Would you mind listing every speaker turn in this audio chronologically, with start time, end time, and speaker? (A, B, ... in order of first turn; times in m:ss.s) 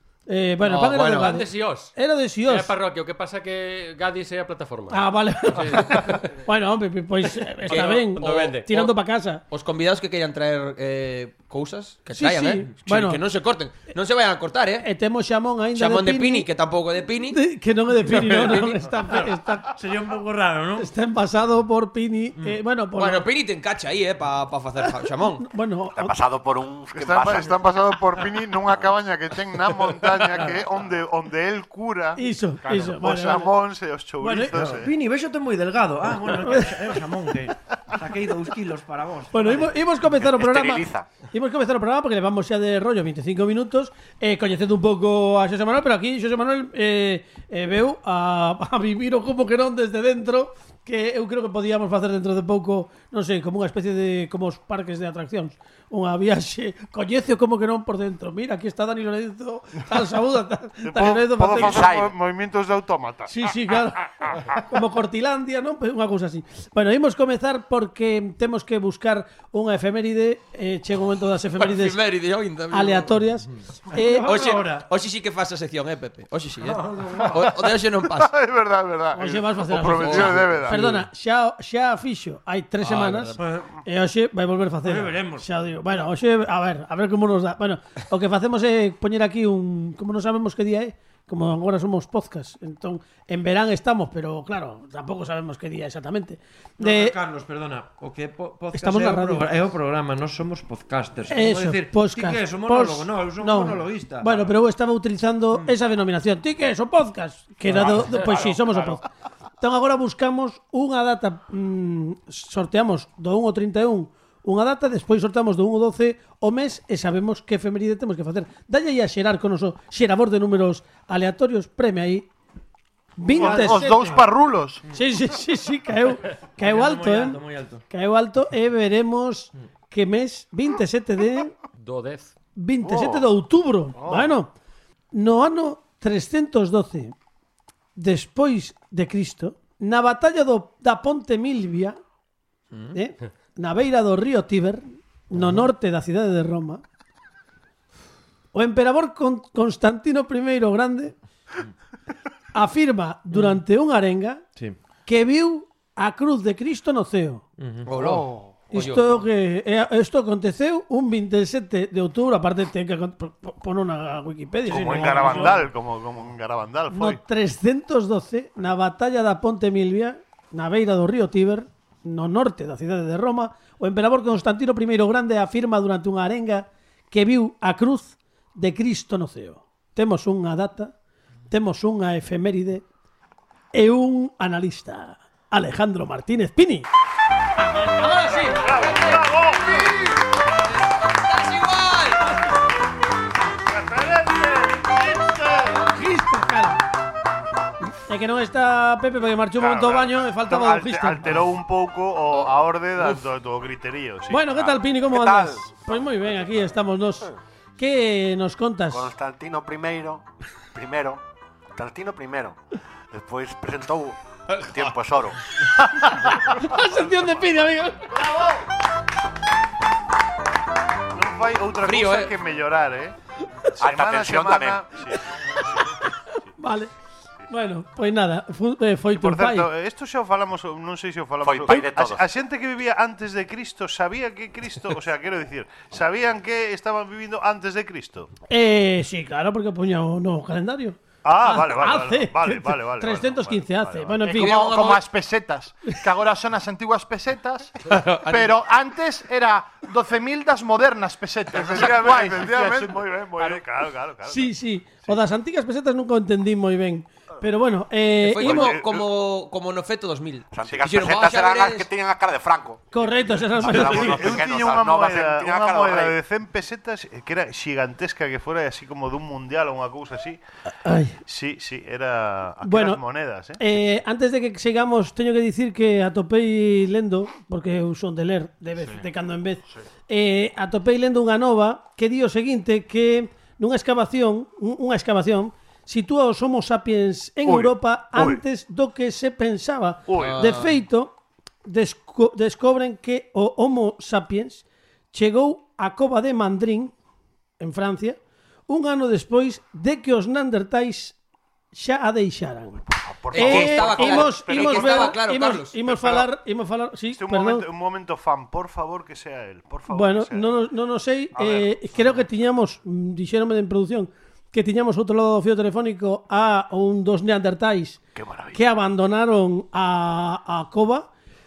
0:00.3-0:02.7 A
0:00.6-0:01.4 B
0:01.2-0:01.9 C
0:02.5-0:06.3 C
0:04.9-0:09.4 A
0:07.7-0:08.9 B
0:07.7-0:08.7 C
0:09.5-0:14.9 B
0:12.1-0:13.2 A
0:14.8-0:16.5 A
0:15.7-0:17.4 B
0:17.3-0:19.8 A
0:18.1-0:18.8 B
0:19.7-0:20.9 D
0:20.8-0:23.3 A
0:22.9-0:25.5 B
0:25.4-0:26.1 A
0:25.9-0:27.6 E
0:26.9-0:34.9 F
0:32.2-0:33.5 A
0:34.2-0:34.5 A
0:34.5-0:39.7 D
0:39.3-1:01.9 A
0:40.1-0:41.1 E
1:00.8-1:04.5 F
1:01.5-1:02.1 E
1:03.3-1:12.0 A
1:11.6-1:13.2 B
1:12.7-1:14.4 A
1:13.9-1:14.9 D
1:14.2-1:18.3 B
1:16.7-1:17.3 D
1:17.3-1:20.8 F
1:19.1-1:37.1 A
1:19.9-1:21.0 B
1:22.8-1:23.4 B
1:23.4-1:23.7 D
1:24.8-1:25.4 D
1:36.8-1:44.5 D
1:38.7-1:39.5 A
1:41.3-1:49.0 A
1:47.7-1:48.0 D
1:49.6-2:02.3 A
2:03.2-2:04.2 A
2:03.3-2:04.8 G
2:03.3-2:04.2 D
2:04.9-2:11.5 A
2:06.6-2:07.8 D
2:11.8-2:12.3 C
2:12.6-2:14.5 A
2:15.1-2:17.1 A
2:18.0-2:22.0 A
2:22.9-2:26.8 A
2:28.5-2:31.1 A
2:32.5-2:34.4 A
2:35.0-2:37.4 A
2:37.6-2:38.2 D
2:37.8-2:39.0 B
2:38.7-2:45.6 A
2:44.7-2:47.2 F
2:44.7-2:45.6 D
2:46.9-3:00.9 A
3:01.5-3:02.8 A
3:03.7-3:06.9 A
3:08.0-3:12.4 B
3:08.4-3:10.0 F
3:13.7-3:15.7 F
3:15.8-3:16.8 A
3:18.0-3:21.4 A
3:19.6-3:24.7 F
3:24.3-3:29.1 A
3:24.6-3:25.7 E
3:28.9-3:31.2 E
3:31.7-3:32.6 E
3:33.1-3:35.4 E
3:36.4-3:38.1 A
3:41.1-3:43.1 F
3:41.8-3:42.3 B
3:43.8-3:44.8 E
3:43.8-3:45.9 F
3:46.0-3:46.9 A
3:47.5-3:49.7 A
3:49.1-3:58.3 F
3:51.4-3:52.2 E
3:58.5-4:04.6 A
4:01.2-4:04.2 F
4:04.3-4:05.0 B
4:04.3-4:13.6 G
4:07.9-4:08.6 B
4:11.5-4:14.5 F
4:14.2-4:18.7 A
4:18.2-4:21.9 B
4:18.4-4:19.1 F
4:20.5-4:22.9 E
4:22.9-4:24.4 A
4:23.6-4:26.2 E
4:23.6-4:30.4 F
4:30.8-4:31.2 A
4:31.2-4:33.6 F
4:32.6-4:33.0 A
4:33.6-4:56.9 A
4:47.4-4:48.4 F
4:50.1-4:50.4 F
4:50.2-4:50.8 B
4:57.6-5:01.2 A
5:01.7-5:07.6 A
5:03.0-5:05.2 F
5:03.3-5:05.8 B
5:05.8-5:06.3 F
5:07.1-5:10.6 F
5:09.9-5:18.0 A
5:11.3-5:12.2 F
5:18.1-5:18.7 F
5:18.5-5:21.1 A